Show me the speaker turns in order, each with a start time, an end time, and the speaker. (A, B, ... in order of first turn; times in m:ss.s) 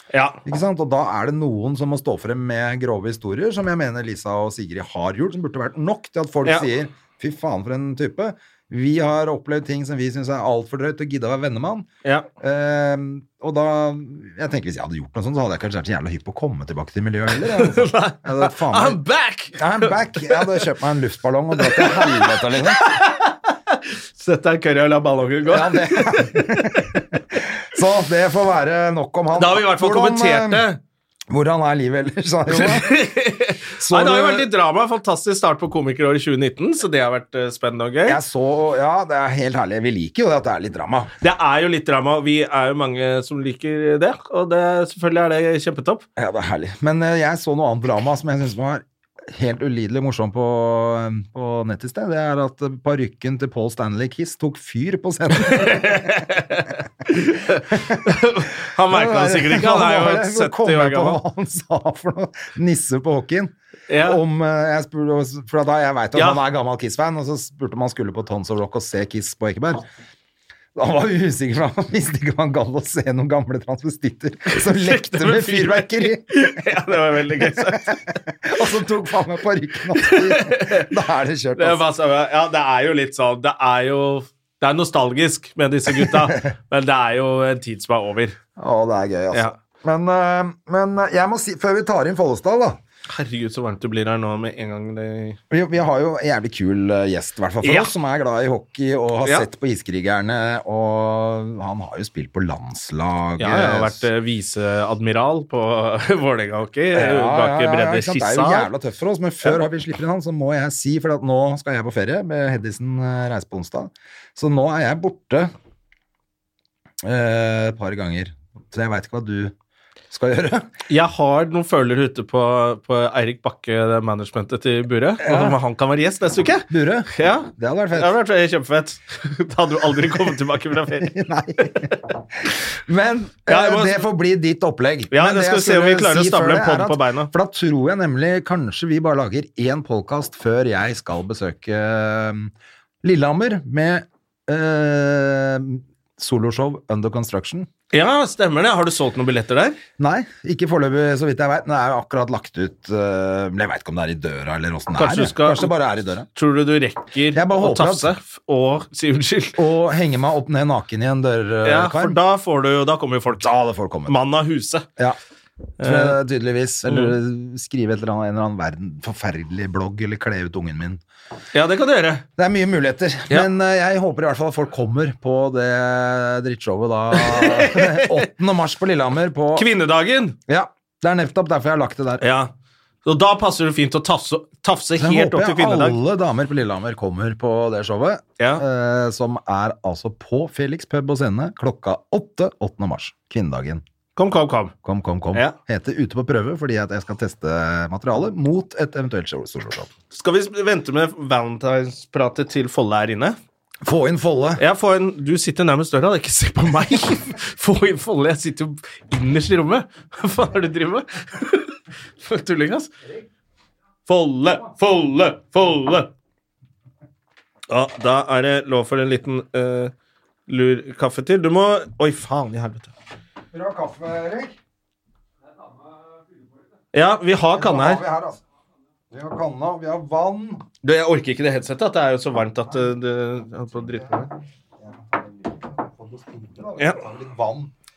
0:00.4-0:11.9 A
0:12.4-0:19.0 A
0:17.3-0:20.6 B
0:19.6-0:22.8 A
0:21.6-0:27.0 B
0:25.5-0:30.6 A
0:29.4-0:30.8 B
0:31.3-0:32.9 A
0:32.5-0:38.2 B
0:33.8-0:34.5 A
0:38.0-0:41.1 A
0:41.2-0:46.0 B
0:46.2-0:56.2 A
0:55.4-1:01.2 B
0:57.7-0:58.1 A
0:58.9-1:09.8 A
1:03.9-1:04.2 B
1:06.1-1:06.4 B
1:10.7-1:16.5 A
1:14.5-1:18.0 B
1:17.5-1:21.8 A
1:20.0-1:20.9 B
1:21.6-1:28.4 B
1:25.9-1:26.4 A
1:28.6-1:32.8 A
1:33.1-1:35.4 B
1:35.5-1:44.0 A
1:37.6-1:37.9 B
1:43.4-1:48.7 B
1:46.9-1:55.5 A
1:57.0-1:59.5 A
2:00.1-2:00.7 A
2:00.9-2:11.1 B
2:05.2-2:05.6 A
2:06.7-2:08.1 A
2:11.0-2:27.7 A
2:13.5-2:14.0 B
2:15.1-2:17.3 B
2:27.9-2:29.8 B
2:30.0-2:36.3 A
2:35.0-2:35.7 B
2:36.3-2:39.6 B
2:37.3-2:38.1 A
2:39.6-2:42.2 A
2:41.6-2:43.5 B
2:43.4-2:44.1 A
2:44.1-2:44.8 B
2:45.8-2:46.2 B
2:45.8-2:51.0 A
2:46.9-2:47.1 B
2:51.5-2:52.2 B
2:52.4-2:59.7 A
2:57.1-2:58.2 B
2:59.5-3:00.4 B
3:00.5-3:02.2 A
3:02.2-3:02.5 B
3:03.0-3:06.0 B
3:05.0-3:13.8 A
3:14.2-3:14.7 B
3:14.8-3:19.9 A
3:20.1-3:23.4 B
3:23.8-3:24.6 A
3:24.6-3:32.9 B
3:34.1-3:36.1 B
3:37.7-3:39.9 B
3:40.5-3:42.9 B
3:43.5-3:44.6 A
3:46.9-3:48.0 B
3:47.5-3:48.4 A
3:49.1-3:50.6 A
3:50.8-3:54.3 B
3:53.7-3:57.7 A